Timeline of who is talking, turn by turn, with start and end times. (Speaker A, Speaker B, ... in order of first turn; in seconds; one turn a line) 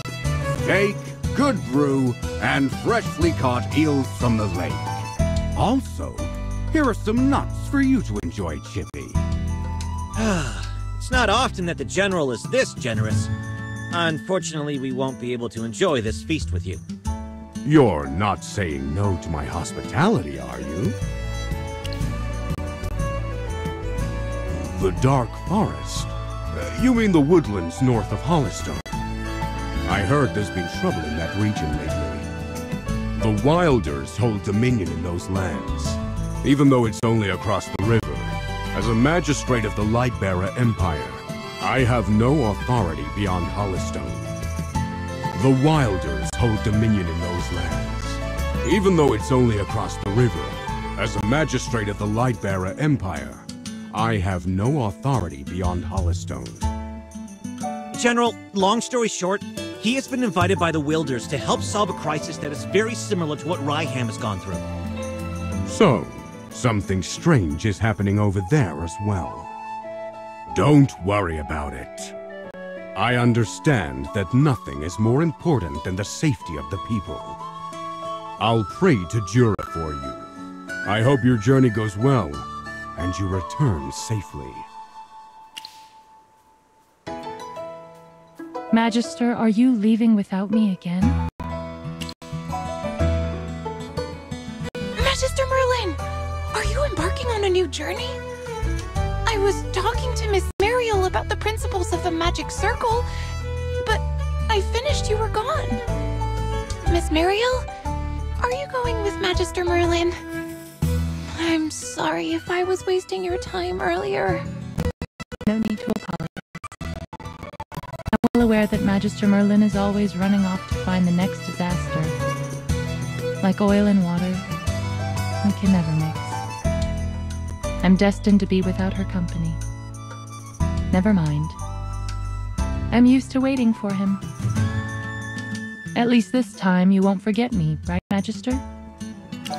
Speaker A: 0.6-5.0
Speaker A: 5.6-9.2
Speaker B: 10.2-13.3
Speaker B: 13.9-16.8
Speaker A: 17.6-20.9
Speaker A: 24.5-28.9
Speaker A: 29.9-32.3
Speaker A: 33.2-44.3
Speaker A: 45.3-56.7
Speaker B: 57.9-64.6
Speaker A: 65.7-69.5
Speaker A: 70.5-72.1
Speaker A: 73.0-77.4
Speaker A: 78.4-80.3
Speaker A: 80.8-84.7
Speaker C: 88.7-91.2
Speaker D: 95.0-96.0
Speaker D: 96.5-98.2
Speaker D: 99.3-103.1
Speaker D: 103.8-105.8
Speaker D: 106.9-107.7
Speaker D: 108.4-110.2
Speaker D: 111.2-114.5
Speaker C: 115.5-116.4
Speaker C: 118.1-122.2
Speaker C: 123.4-124.5
Speaker C: 125.4-126.4
Speaker C: 127.8-129.6
Speaker C: 130.9-131.6
Speaker C: 132.9-134.2
Speaker C: 135.9-138.6